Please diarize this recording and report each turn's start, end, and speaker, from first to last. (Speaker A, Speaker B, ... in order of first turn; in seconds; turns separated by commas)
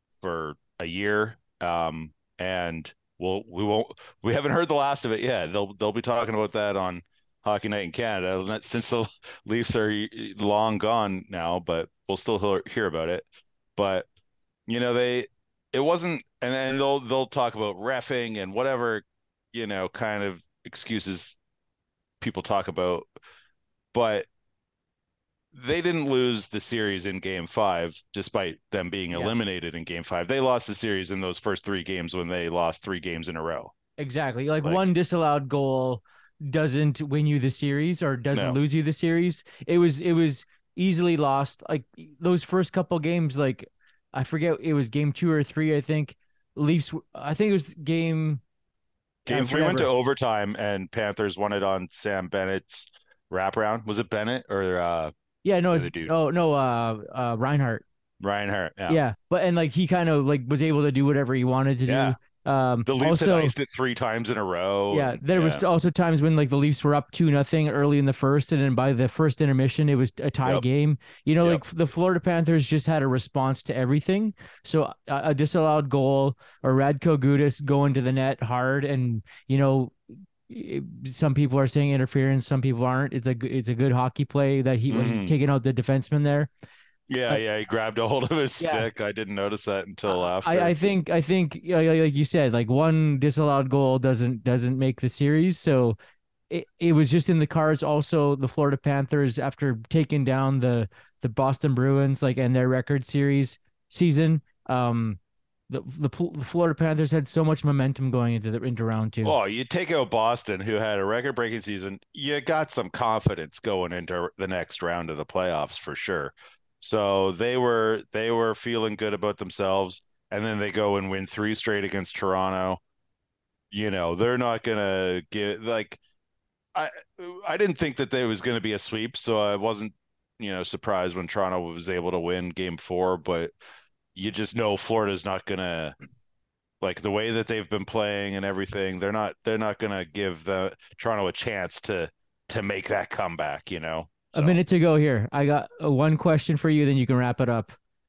Speaker A: 0.2-14.1, Speaker A: 14.7-21.4, Speaker A: 22.2-23.1, Speaker A: 23.9-24.3, Speaker A: 25.5-33.7, Speaker B: 34.0-48.4, Speaker A: 38.3-38.6, Speaker A: 49.3-55.1, Speaker B: 49.3-49.9, Speaker B: 55.4-57.8, Speaker A: 55.7-56.1, Speaker A: 58.2-59.0, Speaker B: 58.9-63.5, Speaker A: 61.9-62.2, Speaker A: 62.9-65.6, Speaker B: 64.9-80.0, Speaker B: 80.5-86.5, Speaker A: 84.9-85.3, Speaker A: 87.1-90.8, Speaker B: 88.6-88.9, Speaker B: 90.1-96.0, Speaker B: 96.5-109.4, Speaker A: 109.2-122.8, Speaker A: 123.7-126.0, Speaker A: 126.8-133.5, Speaker A: 134.2-135.9, Speaker A: 136.8-144.6, Speaker B: 144.3-147.8